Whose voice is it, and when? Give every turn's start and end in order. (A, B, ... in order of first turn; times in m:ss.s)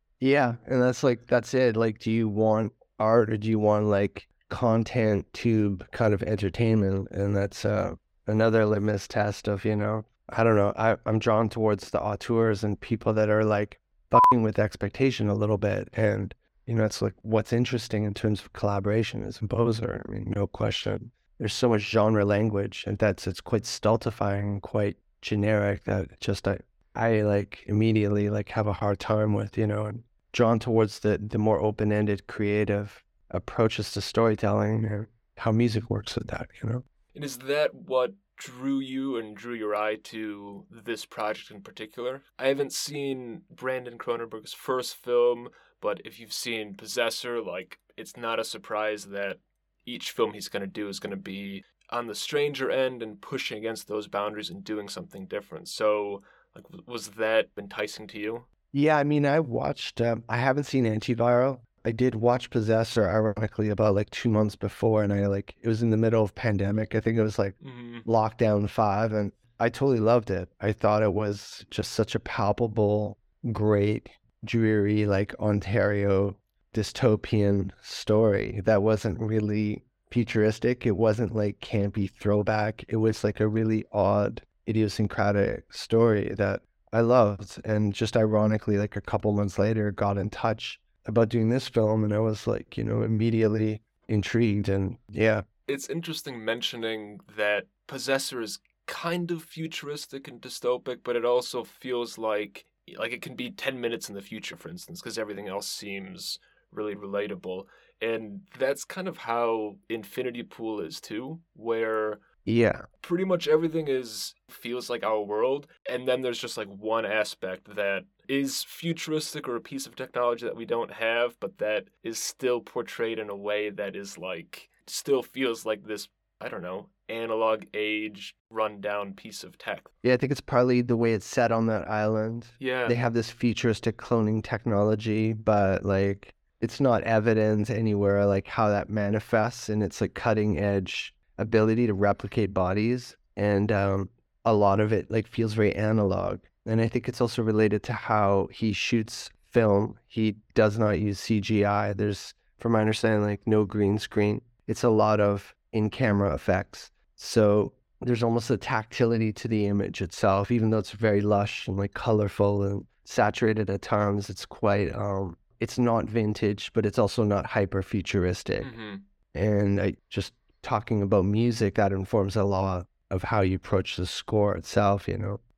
0:00.2-0:36.8 A
0:37.1-0:58.5 B
0:58.7-1:35.4 A
1:07.6-1:08.1 B
1:35.7-1:52.2 B
1:52.5-1:52.9 A
1:53.0-2:09.9 B
2:10.0-2:48.7 A
2:12.6-2:13.0 B
2:48.6-2:49.0 B
2:49.3-2:55.4 A